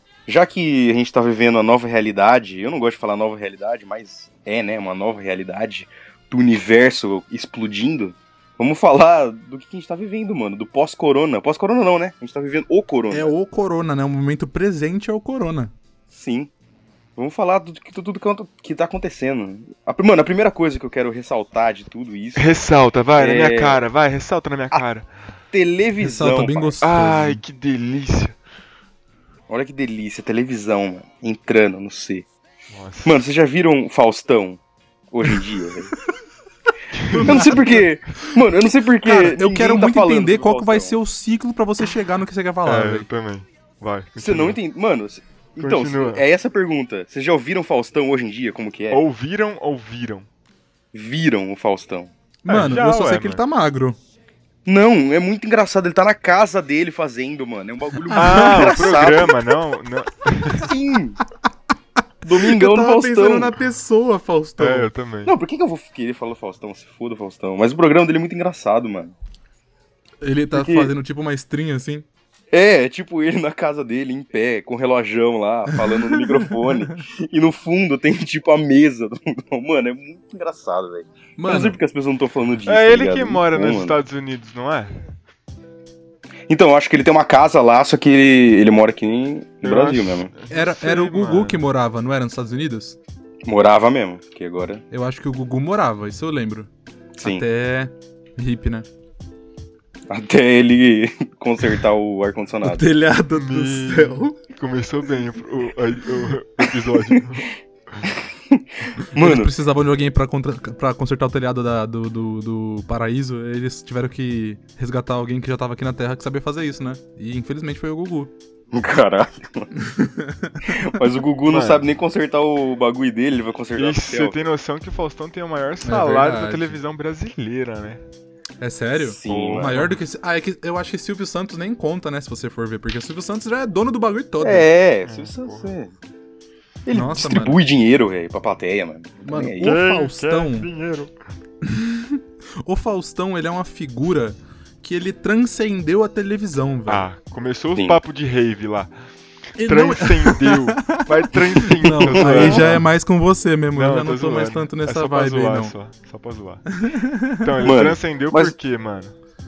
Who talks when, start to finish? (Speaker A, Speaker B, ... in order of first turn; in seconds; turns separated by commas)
Speaker A: 0.3-13.3, Speaker B: 13.1-15.7, Speaker A: 16.1-16.5, Speaker A: 17.2-22.5, Speaker C: 22.4-25.1, Speaker A: 23.2-23.8, Speaker A: 25.5-26.8, Speaker B: 26.0-27.4, Speaker C: 26.8-28.4, Speaker A: 29.5-32.3, Speaker C: 32.7-33.2, Speaker A: 33.0-34.6, Speaker A: 35.1-35.9, Speaker C: 37.0-37.7, Speaker B: 37.1-37.9, Speaker A: 37.2-41.0, Speaker B: 39.0-43.1, Speaker C: 42.6-44.6, Speaker A: 44.2-49.0, Speaker C: 45.6-46.2, Speaker C: 48.9-50.3, Speaker A: 50.9-52.1, Speaker B: 52.5-54.0, Speaker C: 52.5-53.4, Speaker A: 54.7-59.4, Speaker B: 58.1-59.0, Speaker C: 58.1-60.7, Speaker A: 60.5-61.2, Speaker A: 62.2-63.6, Speaker B: 62.3-64.9, Speaker C: 64.6-65.3, Speaker A: 65.2-69.2, Speaker B: 70.2-72.1, Speaker A: 70.5-70.9, Speaker A: 72.5-84.0, Speaker B: 75.9-77.0, Speaker B: 81.4-81.8, Speaker C: 82.7-85.1, Speaker A: 86.5-90.3, Speaker C: 89.6-91.6, Speaker B: 90.5-93.0, Speaker A: 93.5-94.8, Speaker B: 94.9-96.7, Speaker A: 97.1-97.5, Speaker B: 97.2-98.9, Speaker A: 100.1-102.9, Speaker B: 102.6-104.4, Speaker C: 103.3-108.1, Speaker A: 108.5-109.5, Speaker B: 109.1-118.3, Speaker A: 118.7-119.7, Speaker B: 119.8-120.9, Speaker A: 120.7-124.4, Speaker C: 121.5-121.8, Speaker C: 123.8-128.0, Speaker B: 125.8-126.8, Speaker B: 128.6-134.7, Speaker A: 129.0-129.8, Speaker C: 129.3-129.9, Speaker A: 134.4-135.9, Speaker C: 135.0-135.7, Speaker A: 136.9-139.8, Speaker B: 136.9-137.6, Speaker B: 139.2-140.7, Speaker C: 139.6-141.1, Speaker B: 141.6-147.1, Speaker C: 146.9-148.9, Speaker B: 149.6-155.7, Speaker C: 149.6-152.9, Speaker A: 152.1-152.7, Speaker C: 153.7-156.7, Speaker B: 156.7-157.6, Speaker C: 157.4-159.1, Speaker A: 157.6-158.6